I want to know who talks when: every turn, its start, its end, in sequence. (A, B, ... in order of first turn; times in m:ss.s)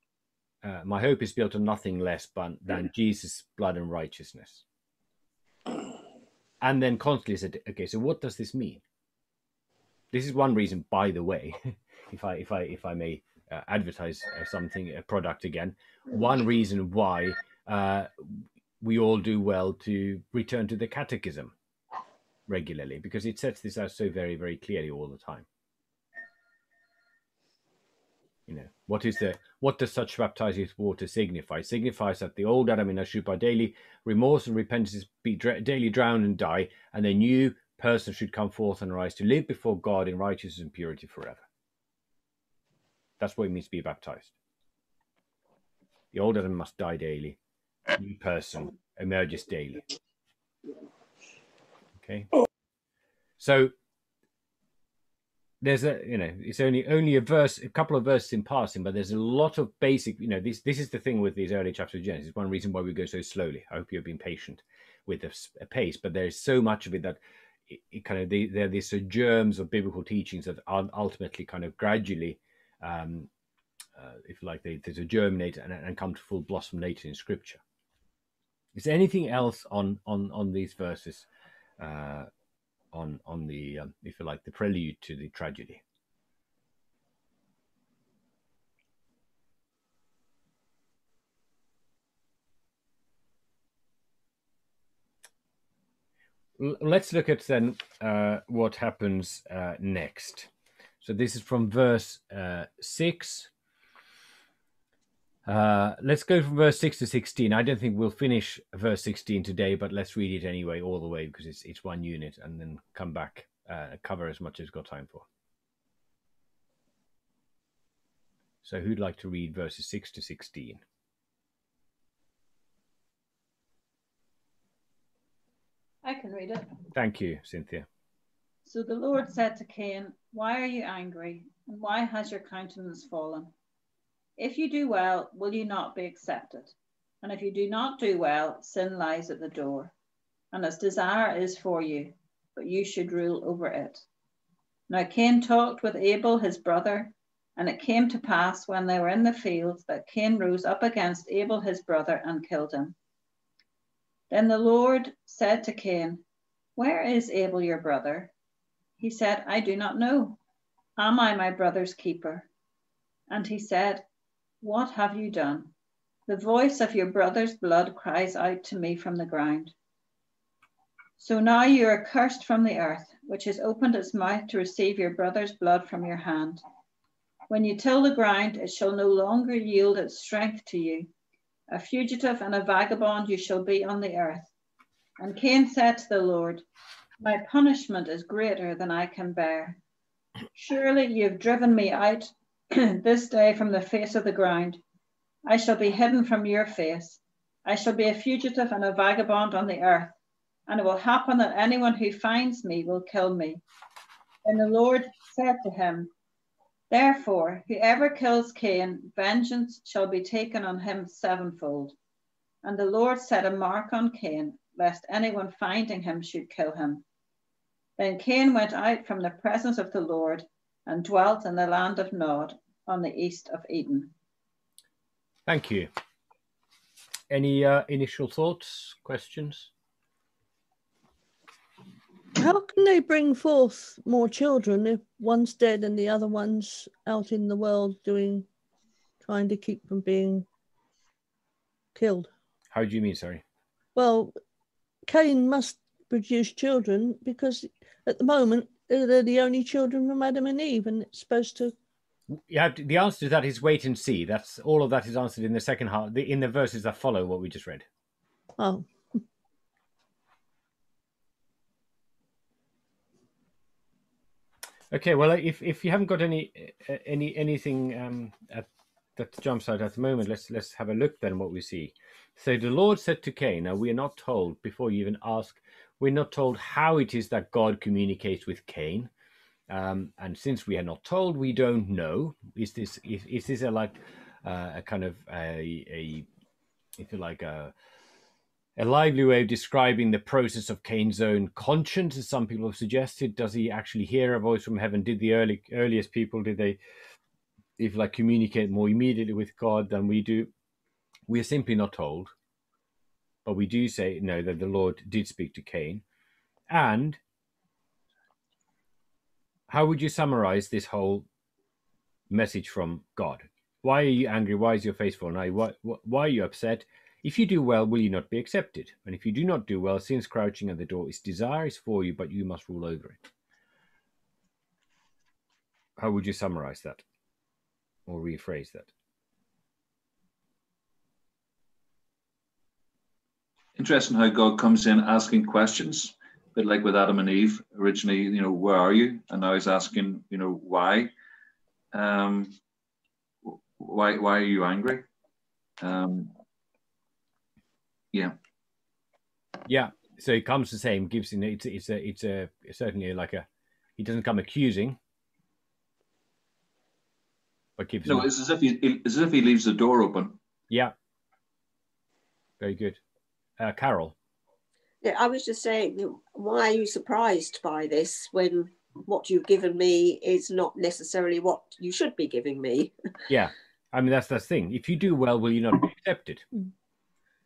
0:00.6-0:04.6 A
0:06.6-0:08.8 A
0:10.1-0:11.6 A
0:12.1-0:21.5 A
0:22.5-0:25.5 A
0:28.5-0:41.4 A
0:43.2-0:44.3 A
0:46.1-0:47.4 A
0:48.0-0:49.8 A
0:52.0-0:52.3 A
0:53.4-0:53.7 A
0:55.6-1:13.3 A
1:14.0-1:17.6 A
1:18.8-1:21.3 A
1:21.8-1:22.3 A
1:22.9-1:25.8 A
1:36.6-1:40.5 A
1:41.0-1:43.5 A
1:45.5-1:55.3 A
1:58.6-2:00.8 A
2:06.0-2:06.7 B
2:06.9-2:07.9 A
2:08.7-2:13.5 B
2:14.4-2:19.9 B
2:20.5-2:24.0 B
2:24.9-2:33.0 B
2:34.3-2:36.2 B
2:36.8-2:38.3 B
2:39.0-2:40.4 B
2:41.0-2:42.5 B
2:43.3-2:44.0 B
2:44.6-2:45.7 B
2:46.3-2:49.7 B
2:51.2-2:56.6 B
2:57.5-3:01.1 B
3:01.7-3:04.5 B
3:05.2-3:06.7 B
3:07.2-3:09.8 B
3:10.6-3:14.8 B
3:15.5-3:20.2 B
3:20.7-3:23.6 B
3:24.4-3:26.1 B
3:26.9-3:32.0 B
3:32.6-3:37.0 B
3:38.0-3:44.1 B
3:45.5-3:45.9 A
3:47.3-3:49.7 A
3:52.4-3:58.5 C
3:59.2-4:00.5 C
4:02.0-4:02.3 C
4:02.7-4:03.4 A
4:04.0-4:04.4 C
4:05.1-4:11.8 C
4:12.3-4:17.9 A
4:18.6-4:18.9 C
4:24.9-4:39.1 A
4:39.7-4:46.3 A
4:47.0-4:47.7 A
4:48.8-4:56.8 A
4:57.8-5:00.5 A
5:01.3-5:02.3 A
5:03.4-5:06.0 A
5:06.7-5:07.2 A
5:09.7-5:11.3 A
5:12.3-5:23.2 A
5:26.0-5:27.0 A
5:28.1-5:28.9 A
5:33.8-5:41.1 D
5:41.9-5:42.6 D
5:43.4-5:45.1 D
5:45.8-5:46.3 D
5:49.7-5:53.5 A
5:54.0-5:55.0 A
5:57.8-5:58.3 A
5:58.0-6:00.4 D
6:02.6-6:03.0 A
6:03.6-6:04.2 A
6:05.0-6:12.9 E
6:13.3-6:16.5 A